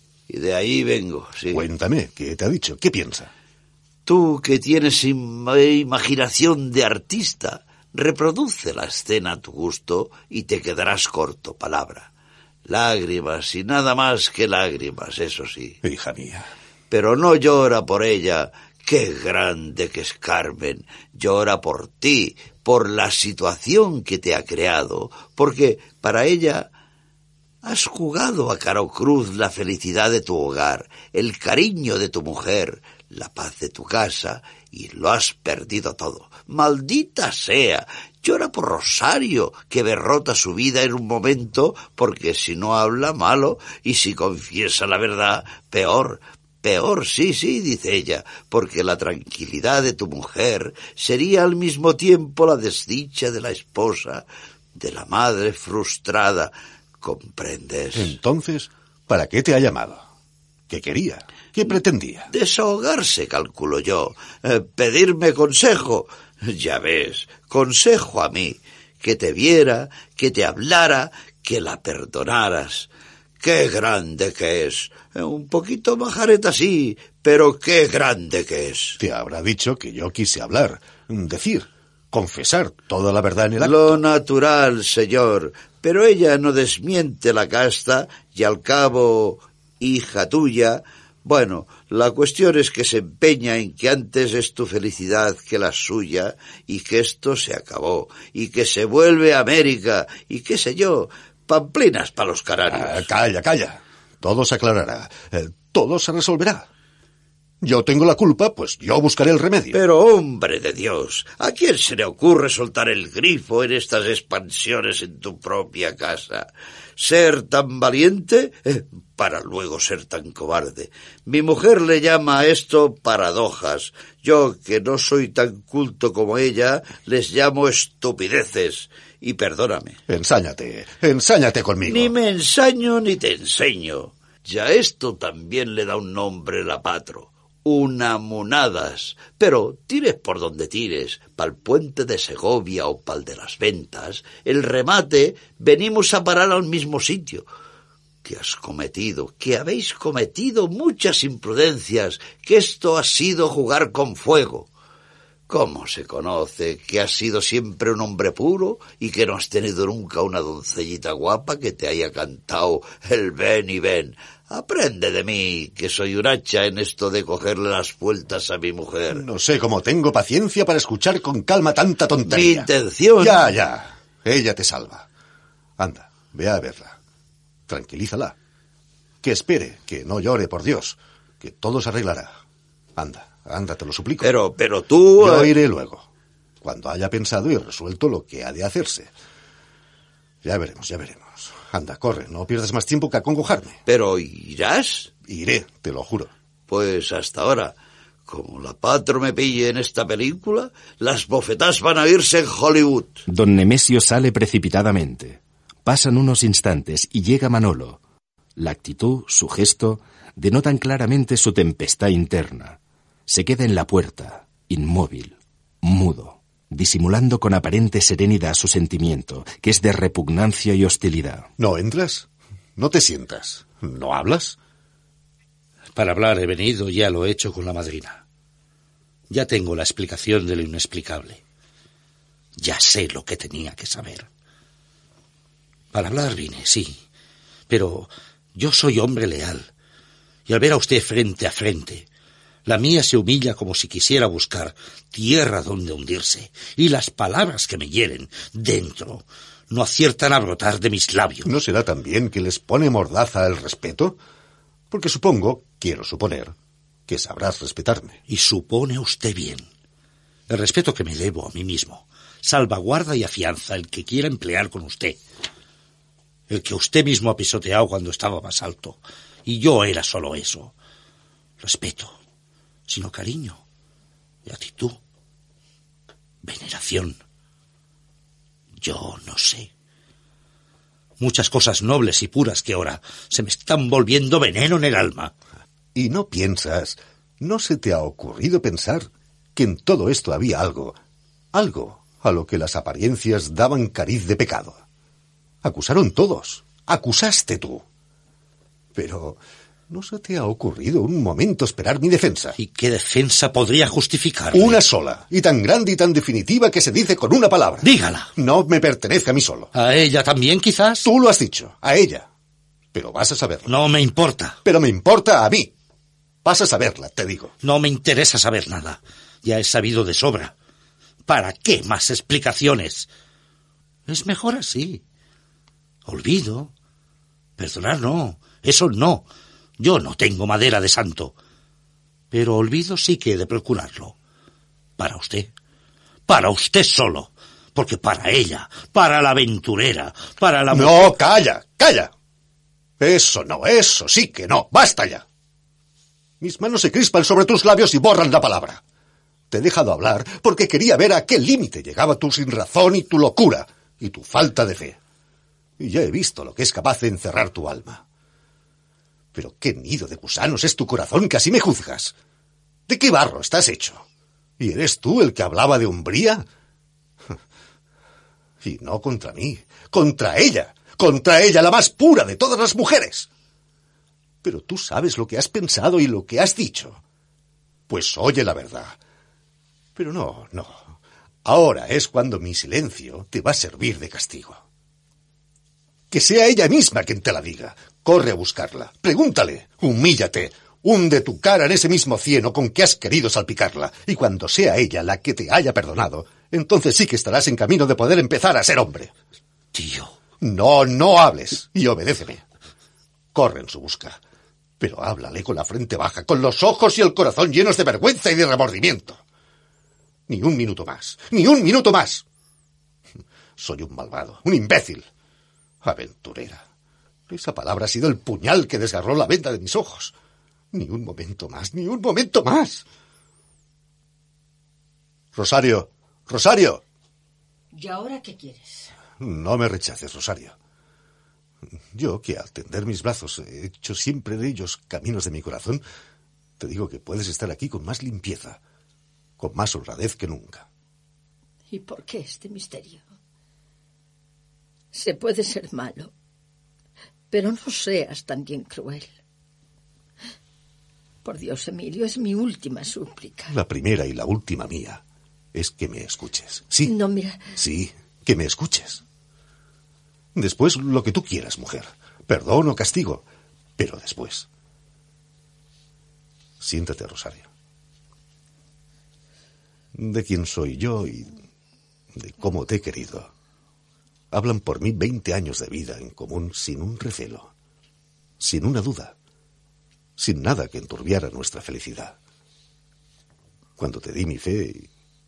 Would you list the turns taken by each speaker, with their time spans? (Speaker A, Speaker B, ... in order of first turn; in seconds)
Speaker A: 0.3-1.6, 4.0-12.1, 12.7-15.8, 16.9-26.7, 27.6-58.1, 62.3-72.9, 73.4-79.0, 83.6-103.1, 109.7-130.0, 131.9-147.5, 148.2-154.7, 155.5-169.2, 172.3-173.5, 184.2-185.5, 193.8-195.1, 196.7-197.7, 198.3-203.2
Speaker B: 1.5-3.3, 15.8-16.5, 57.9-60.0, 60.7-62.3, 79.0-84.0, 102.7-106.7, 107.6-109.8, 130.1-132.2, 169.1-175.1, 175.8-177.0, 177.7-178.3, 179.2-182.4, 182.9-184.3, 185.2-186.1, 186.6-189.1, 190.4-193.8, 195.2-196.3, 221.6-224.6, 251.4-254.2, 254.9-256.5, 257.1-258.2, 285.9-290.9, 291.5-294.8, 295.6-297.8, 298.9-302.6, 304.5-309.7, 311.0-312.3, 312.9-313.8, 314.6-315.7, 316.4-317.5, 340.7-342.1, 343.0-345.2, 346.4-348.8, 349.5-355.0, 355.8-358.0, 359.3-362.1, 362.9-364.0, 364.6-366.4, 368.6-373.3, 374.4-377.0, 377.9-379.0, 379.9-384.6, 386.1-399.1, 400.4-402.4, 403.3-404.2, 404.8-409.2, 410.3-412.2, 413.6-415.1, 415.8-416.6, 417.3-420.1, 420.7-422.8, 425.3-426.8, 429.2-430.5, 431.9-435.8, 436.6-438.6, 439.4-440.6, 453.5-455.0, 455.5-456.9, 457.5-459.0, 460.3-463.2, 463.8-464.5, 466.6-467.5, 469.9-471.4, 472.1-473.3, 474.3-477.5, 478.4-479.1, 480.2-482.1, 483.8-484.9
Speaker C: 203.3-208.0, 208.6-221.5
Speaker D: 225.9-228.2, 229.3-231.4, 232.6-234.3, 235.9-237.0, 237.7-239.7, 240.5-242.1, 242.7-251.5, 258.3-259.6, 260.5-265.2, 266.5-270.7, 271.6-272.1, 272.9-273.6, 274.4-275.0, 276.4-277.1, 278.8-279.7, 281.2-285.3, 302.6-304.8, 307.8-308.3, 309.7-311.1, 313.7-314.6, 317.6-320.5, 321.3-323.1, 324.1-325.0, 326.1-326.7, 327.6-329.2, 329.8-331.3, 332.3-334.1, 335.0-335.5, 336.3-341.1, 399.7-400.1
Speaker E: 427.7-428.9, 441.7-443.0, 444.9-446.1, 447.3-449.1, 451.2-453.5, 456.9-457.4